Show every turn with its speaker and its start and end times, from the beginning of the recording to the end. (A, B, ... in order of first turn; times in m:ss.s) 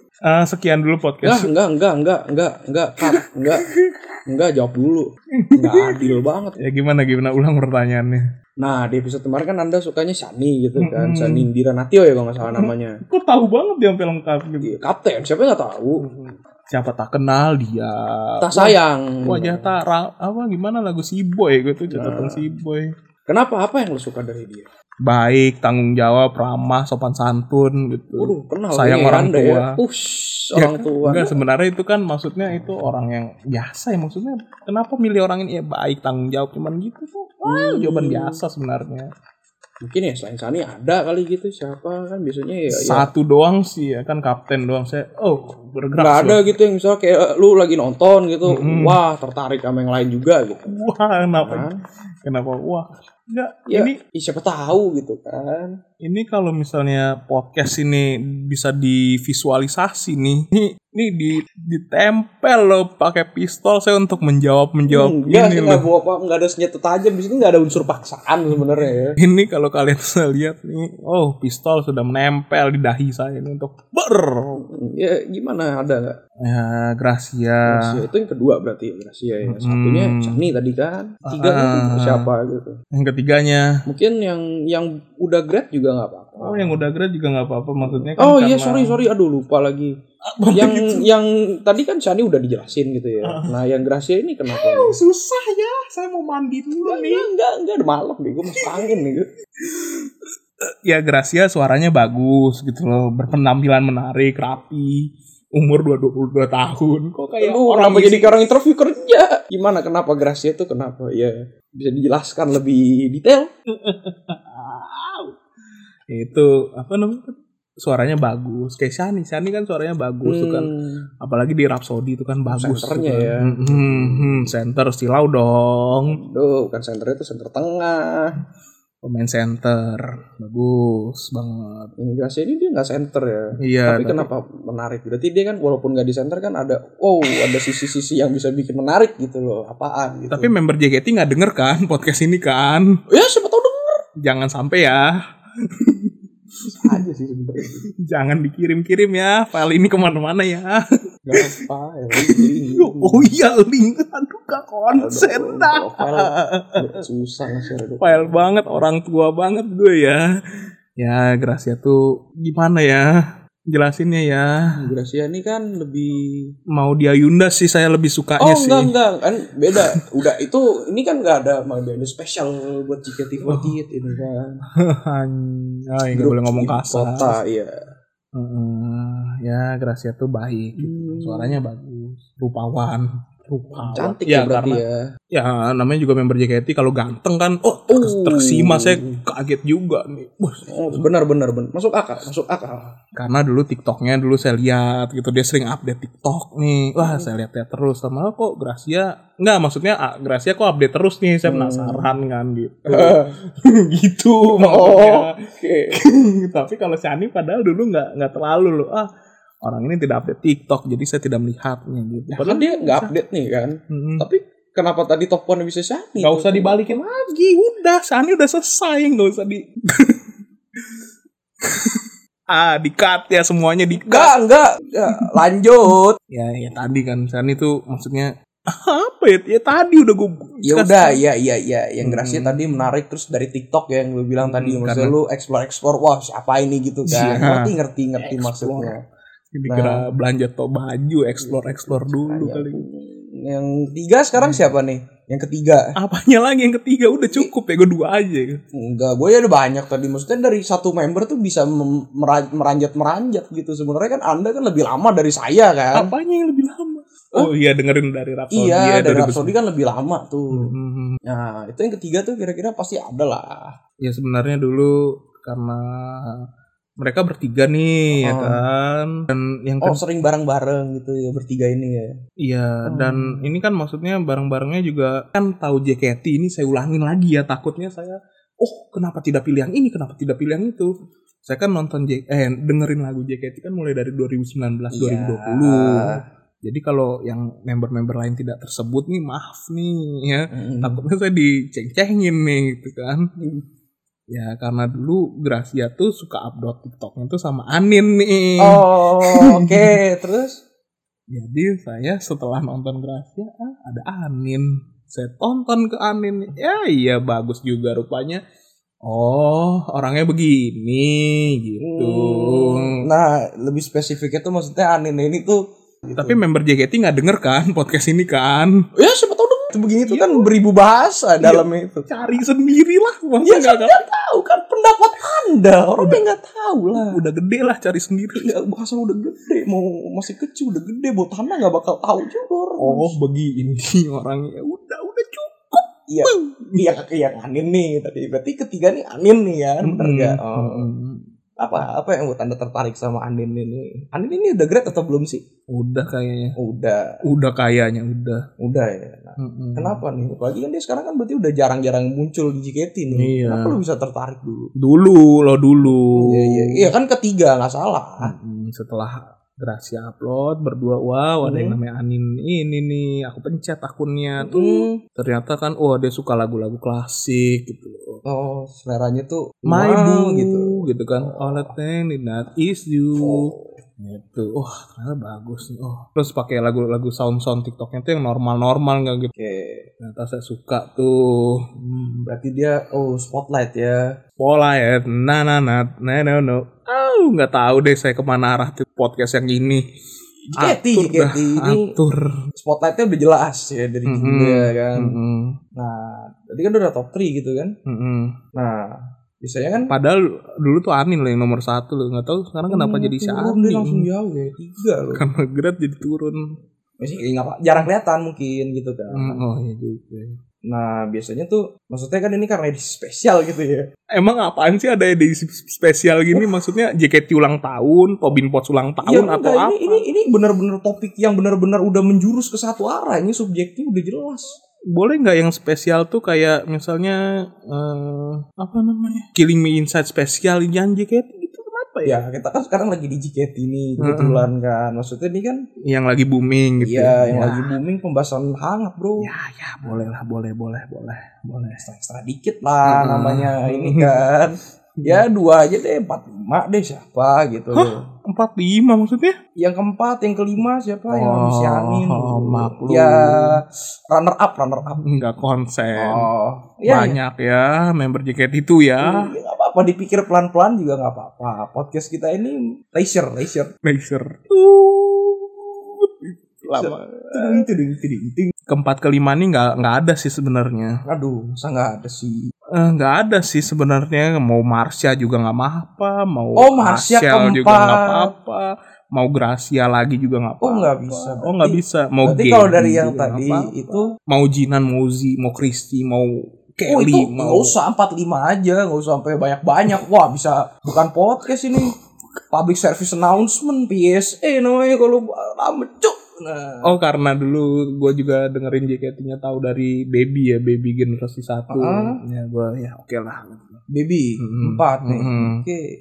0:00.3-0:01.5 A
0:01.2-0:03.7 B
0:03.0-0:04.0 A
0:04.3-0:06.6 B
0:05.4-0:08.2 A
0:08.6-0:13.0 B
0:10.8-0:11.5 A
0:12.4-0:14.8 A
0:14.6-0:16.0 B
0:16.0-0:22.9 A
0:18.4-0:19.7 B
0:21.9-0:22.4 B
0:23.3-0:24.6 B
0:25.0-0:29.8 A
0:28.2-0:31.4 B
0:30.5-0:39.1 A
0:37.4-0:38.4 B
0:39.8-0:43.1 B
0:42.7-0:46.5 A
0:46.0-0:50.7 B
0:48.4-0:49.0 A
0:50.7-0:51.7 A
0:51.4-0:51.7 B
0:52.2-0:54.0 A
0:53.7-0:55.7 B
0:56.0-1:05.8 A
1:04.9-1:09.2 B
1:09.2-1:14.6 A
1:14.6-1:16.2 B
1:16.4-1:18.0 A
1:17.7-1:22.8 B
1:19.4-1:20.4 A
1:21.2-1:22.3 A
1:22.9-1:23.8 A
1:23.9-1:26.8 B
1:26.4-1:29.0 A
1:27.8-1:29.9 B
1:30.3-1:31.1 A
1:30.5-1:35.0 B
1:33.2-1:33.6 A
1:34.5-1:37.3 A
1:36.8-1:39.3 B
1:38.5-1:38.9 A
1:39.6-1:40.1 A
1:40.8-1:48.3 A
1:47.4-1:53.5 B
1:53.7-1:55.4 A
1:56.1-2:00.7 A
2:00.2-2:01.0 B
2:01.2-2:06.2 A
2:02.5-2:04.5 B
2:06.0-2:08.3 B
2:09.0-2:11.9 A
2:12.0-2:20.5 B
2:13.6-2:14.3 A
2:20.3-2:22.9 A
2:23.1-2:24.0 B
2:24.2-2:25.1 A
2:25.6-2:27.0 A
2:26.7-2:27.8 B
2:28.0-2:30.8 A
2:31.2-2:33.3 B
2:32.2-2:37.0 A
2:34.9-2:38.4 B
2:38.0-2:40.2 A
2:41.0-2:43.1 A
2:43.7-2:44.5 A
2:44.7-2:46.5 B
2:46.7-2:48.9 A
2:48.4-2:54.6 B
2:53.4-2:53.8 A
2:54.8-2:57.4 A
2:56.1-2:57.7 B
2:58.3-3:04.8 A
3:00.8-3:01.6 B
3:03.7-3:04.9 B
3:05.3-3:11.0 A
3:07.9-3:09.2 B
3:10.7-3:12.9 B
3:13.2-3:25.4 A
3:17.0-3:17.3 B
3:21.4-3:22.1 B
3:22.9-3:23.3 B
3:24.5-3:26.0 B
3:25.9-3:29.1 A
3:29.6-3:33.1 A
3:32.3-3:37.0 B
3:33.9-3:34.2 A
3:36.2-3:40.2 A
3:41.6-3:44.3 A
3:44.0-3:46.2 B
3:46.3-3:51.2 A
3:50.6-3:59.0 B
3:52.0-3:52.9 A
3:54.4-3:55.1 A
3:57.1-3:58.9 A
3:59.5-4:02.8 A
3:59.7-4:00.0 B
4:01.4-4:05.9 B
4:04.4-4:04.7 A
4:06.0-4:08.6 A
4:07.2-4:07.5 B
4:08.7-4:16.1 B
4:15.9-4:19.5 A
4:18.5-4:20.7 B
4:20.5-4:21.2 A
4:21.2-4:23.7 B
4:24.0-4:26.4 A
4:27.0-4:30.0 A
4:28.2-4:28.6 B
4:29.8-4:32.1 B
4:32.4-4:40.9 A
4:32.8-4:33.4 B
4:41.4-4:53.2 A
4:44.9-4:46.2 B
4:50.5-4:51.0 B
4:53.4-4:53.6 B
4:54.3-5:00.0 A
4:58.6-5:00.6 B
5:01.3-5:08.4 A
5:09.0-5:13.0 A
5:11.8-5:16.4 B
5:16.1-5:18.8 A
5:19.0-5:22.4 B
5:20.1-5:20.5 A
5:21.4-5:24.0 A
5:23.4-5:27.2 B
5:26.0-5:26.2 A
5:27.0-5:28.5 A
5:28.4-5:33.1 B
5:32.8-5:36.8 A
5:36.1-5:40.9 B
5:39.8-5:41.3 A
5:41.6-5:45.4 B
5:45.7-5:46.6 A
5:46.6-5:47.0 B
5:47.2-5:48.5 A
5:48.6-5:54.7 B
5:49.4-5:50.0 A
5:53.1-5:53.8 A
5:54.8-5:56.9 A
5:56.1-5:58.3 B
5:58.2-6:08.2 A
6:01.4-6:01.7 B
6:04.4-6:05.0 B
6:08.2-6:11.7 B
6:09.6-6:19.3 A
6:13.2-6:13.7 B
6:19.4-6:19.9 B
6:20.0-6:21.6 A
6:21.8-6:24.0 B
6:24.4-6:29.8 A
6:30.5-6:31.9 B
6:30.6-6:32.3 A
6:32.6-6:35.1 B
6:34.1-6:35.6 A
6:35.8-6:37.7 B
6:37.8-6:38.3 A
6:38.5-6:39.9 B
6:39.9-6:44.1 A
6:42.7-6:45.2 B
6:45.1-6:46.4 A
6:47.0-6:49.4 B
6:49.1-6:50.4 A
6:50.7-6:53.8 B
6:54.1-7:00.0 A
6:59.0-7:04.6 B
7:04.9-7:07.2 A
7:07.7-7:12.2 A
7:12.0-7:15.6 B
7:14.0-7:14.5 A
7:15.9-7:17.7 A
7:16.8-7:19.3 B
7:19.2-7:21.8 A
7:21.8-7:28.0 B
7:22.8-7:24.2 A
7:27.7-7:29.4 A
7:29.6-7:35.0 B
7:31.1-7:33.6 A
7:35.0-7:36.3 A
7:35.9-7:37.2 B
7:36.9-7:39.3 A
7:39.0-7:43.7 B
7:43.8-7:47.7 A
7:46.7-7:48.5 B
7:48.7-7:51.0 A
7:51.0-7:52.4 B
7:52.8-8:07.8 A
7:56.6-7:58.3 B
8:00.6-8:04.1 B
8:06.9-8:11.9 B
8:12.5-8:16.9 B
8:16.8-8:23.8 A
8:21.7-8:22.2 B
8:23.9-8:25.8 B
8:24.4-8:25.6 A